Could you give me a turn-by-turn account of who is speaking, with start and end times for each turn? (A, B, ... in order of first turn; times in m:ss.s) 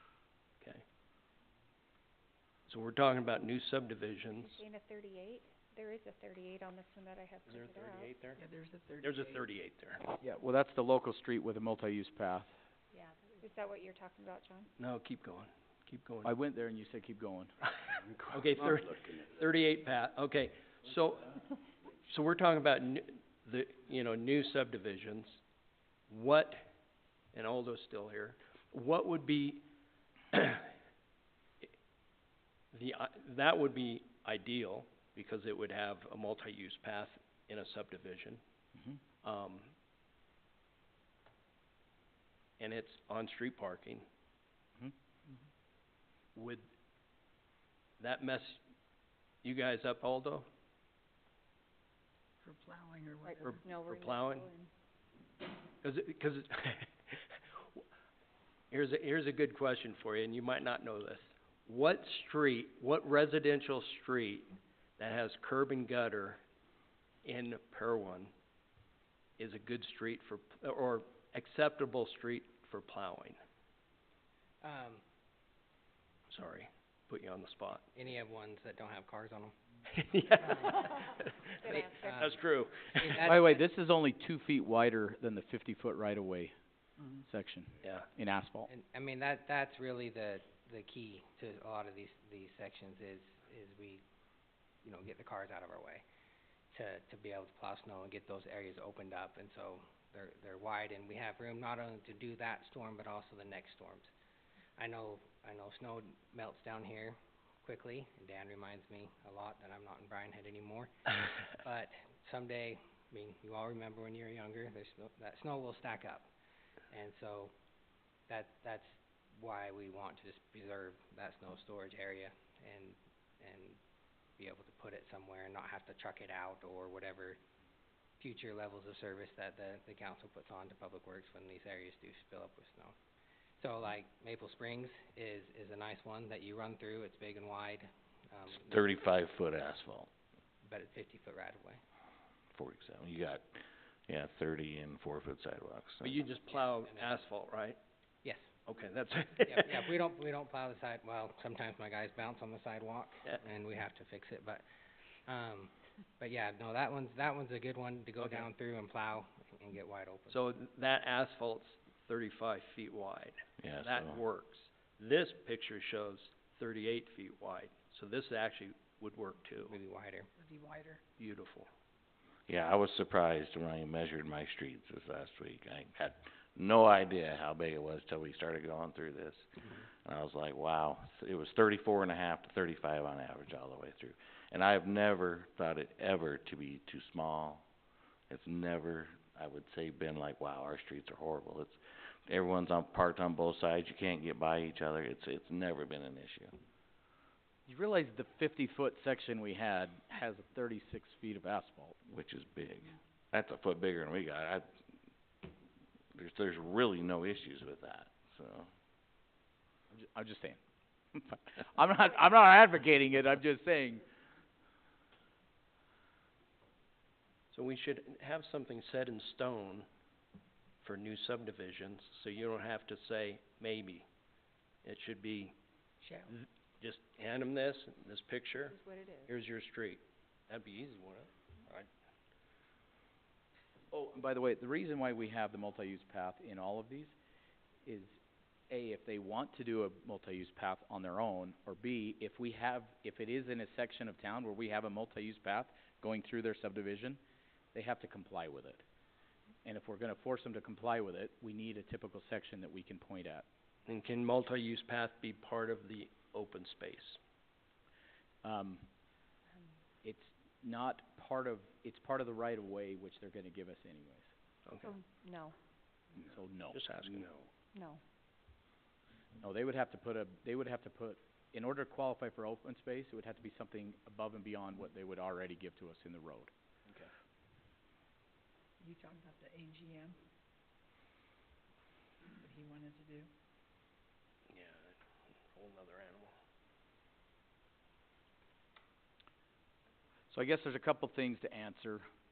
0:02.7-0:04.6 A
0:04.4-0:08.1 B
0:07.5-0:08.4 A
0:08.3-0:09.4 C
0:09.0-0:10.0 A
0:10.2-0:12.6 D
0:12.9-0:14.7 B
0:14.8-0:16.4 A
0:16.2-0:17.5 D
0:18.3-0:21.4 A
0:22.1-0:25.4 A
0:26.1-0:26.6 A
0:27.3-0:29.7 A
0:30.3-0:30.7 A
0:32.7-0:38.4 A
0:39.2-0:39.7 A
0:42.6-0:44.0 A
0:46.4-0:46.6 A
0:48.0-0:48.6 A
0:49.4-0:50.5 A
0:52.4-0:53.6 C
0:53.3-0:54.7 B
0:53.4-0:54.5 A
0:55.8-0:57.2 A
0:58.7-1:06.4 A
1:07.2-1:08.3 A
1:09.4-1:13.4 A
1:14.6-1:15.0 E
1:16.3-1:17.9 A
1:17.9-1:19.6 E
1:19.9-1:23.3 A
1:20.4-1:20.8 E
1:21.6-1:22.2 B
1:21.9-1:22.5 E
1:23.0-1:23.4 E
1:23.2-1:28.7 D
1:27.8-1:28.1 A
1:28.7-1:34.0 E
1:34.8-1:36.0 E
1:36.7-1:44.1 E
1:44.8-1:56.3 E
1:56.9-1:57.5 E
1:58.3-2:03.8 E
2:04.4-2:07.4 E
2:08.2-2:12.9 E
2:13.6-2:18.8 E
2:18.5-2:20.1 F
2:20.6-2:21.8 E
2:22.5-2:26.2 F
2:26.0-2:27.8 A
2:26.5-2:27.2 E
2:28.2-2:28.5 E
2:28.7-2:29.8 A
2:29.5-2:34.6 E
2:35.3-2:40.4 E
2:38.2-2:38.5 A
2:40.3-2:49.8 A
2:43.6-2:44.2 F
2:49.6-2:50.3 E
2:50.4-2:51.0 C
2:51.2-2:51.7 A
2:52.5-2:59.5 F
3:00.0-3:07.6 F
3:08.3-3:16.6 F
3:17.7-3:22.0 D
3:22.1-3:24.7 F
3:26.2-3:28.7 F
3:29.9-3:30.6 D
3:31.1-3:34.0 D
3:37.5-3:39.9 A
3:40.8-3:44.1 A
3:44.8-3:45.6 A
3:46.0-3:46.3 C
3:46.3-3:51.9 A
3:48.7-3:49.3 B
3:53.9-3:57.1 D
3:57.8-3:58.2 D
3:58.7-4:07.2 D
4:07.7-4:08.8 D
4:09.6-4:13.4 D
4:13.9-4:17.2 A
4:18.4-4:18.9 D
4:20.0-4:24.3 D
4:24.6-4:25.0 A
4:24.8-4:25.5 B
4:26.2-4:27.3 D
4:26.7-4:27.3 A
4:27.7-4:28.0 B
4:29.4-4:36.5 D
4:38.8-4:40.2 C
4:42.4-4:43.3 C
4:44.5-4:46.3 A
4:50.3-4:52.0 D